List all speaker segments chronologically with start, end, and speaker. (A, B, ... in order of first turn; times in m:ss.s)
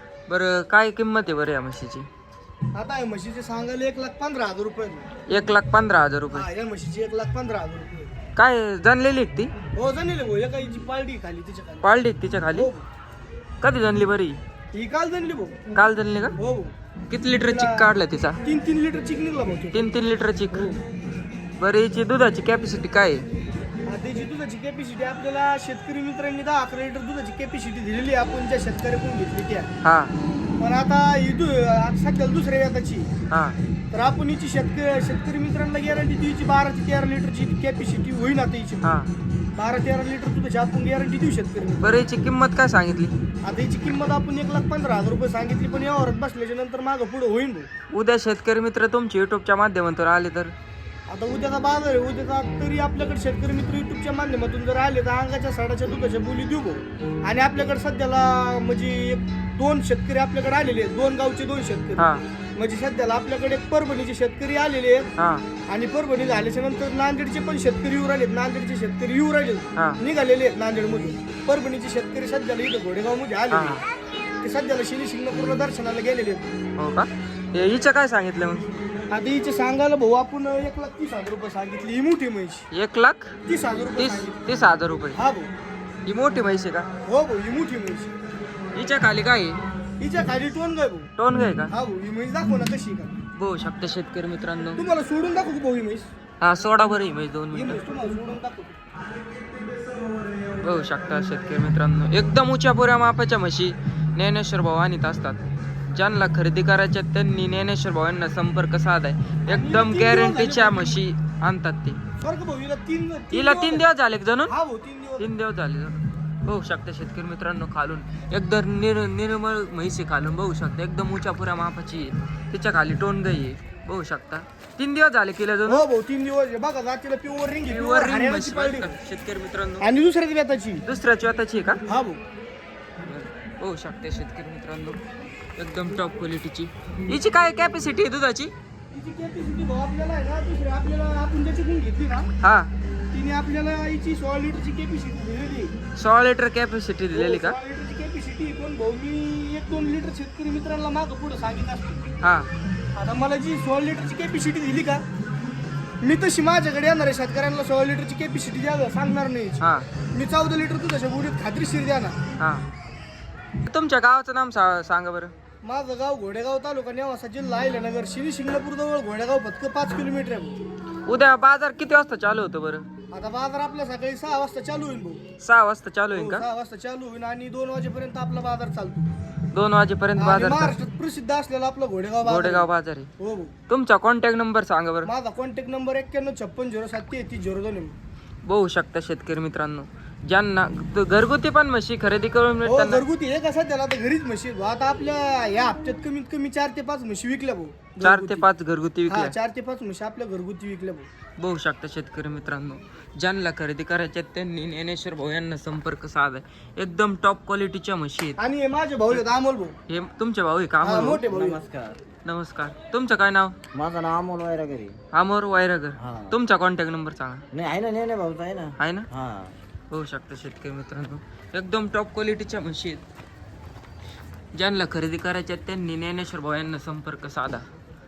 0:00.3-0:02.1 A
0:02.7-0:05.1 B
0:05.3-0:06.5 A
0:06.3-0:08.1 B
0:08.3-0:09.5 A
0:09.7-0:11.8 B
0:11.8-0:12.7 A
0:12.5-0:12.8 B
0:13.6-0:14.4 A
0:14.7-0:15.6 B
0:15.7-0:16.4 A
0:16.4-0:16.7 B
0:17.1-0:18.4 A
0:17.4-0:17.9 B
0:18.4-0:19.9 B
0:19.7-0:20.7 A
0:20.5-0:20.8 B
0:21.6-0:23.2 A
0:23.9-0:29.7 B
0:29.8-0:30.1 A
0:30.6-0:33.1 B
0:33.3-0:33.6 A
0:33.9-0:38.8 B
0:38.8-0:39.1 A
0:39.6-0:42.0 B
0:41.8-0:43.1 A
0:43.4-0:47.7 B
0:47.9-0:50.5 A
0:51.1-1:05.1 B
1:02.0-1:02.2 A
1:05.2-1:05.4 A
1:05.7-1:13.8 B
1:09.7-1:10.0 A
1:13.5-1:13.8 A
1:14.4-1:16.5 B
1:16.8-1:18.7 A
1:19.1-1:22.7 B
1:22.7-1:23.4 A
1:23.4-1:24.4 B
1:24.0-1:25.2 A
1:25.1-1:25.5 B
1:26.0-1:26.9 A
1:27.0-1:28.1 B
1:28.7-1:29.6 A
1:30.0-1:31.1 B
1:31.2-1:31.7 A
1:31.7-1:33.2 B
1:33.3-1:34.8 A
1:34.8-1:36.1 B
1:36.4-1:37.8 A
1:37.5-1:38.8 B
1:40.6-1:52.0 A
1:49.5-1:51.0 B
1:52.2-1:53.8 B
1:53.3-1:54.5 A
1:54.5-1:55.3 B
1:55.2-2:05.8 A
2:05.7-2:08.9 B
2:07.6-2:09.9 A
2:09.8-2:10.8 B
2:10.8-2:11.8 A
2:11.9-2:12.2 B
2:13.0-2:15.0 A
2:15.6-2:18.5 A
2:18.9-2:22.3 B
2:22.4-2:22.7 A
2:23.1-2:25.7 B
2:26.0-2:27.6 A
2:27.1-2:32.1 B
2:32.2-2:32.5 A
2:33.0-2:35.0 B
2:36.0-2:42.2 B
2:39.6-2:39.9 A
2:42.4-2:42.6 A
2:43.6-2:45.3 A
2:45.6-2:50.6 B
2:51.0-2:52.8 A
2:53.1-2:55.2 B
2:55.4-2:56.4 A
2:56.1-2:59.1 B
2:59.5-3:00.8 A
3:00.2-3:02.7 B
3:02.2-3:03.1 A
3:03.2-3:03.5 B
3:03.7-3:05.1 A
3:05.0-3:07.9 B
3:08.4-3:13.0 A
3:12.6-3:18.4 B
3:18.0-3:19.3 A
3:19.1-3:21.1 B
3:21.4-3:28.4 A
3:28.4-3:29.7 B
3:29.9-3:31.2 A
3:30.8-3:31.6 B
3:31.1-3:32.0 C
3:32.2-3:33.6 A
3:33.7-3:35.0 C
3:35.1-3:37.4 A
3:36.0-3:36.3 C
3:37.5-3:39.5 C
3:38.8-3:39.1 A
3:39.9-3:43.0 A
3:44.5-3:47.6 A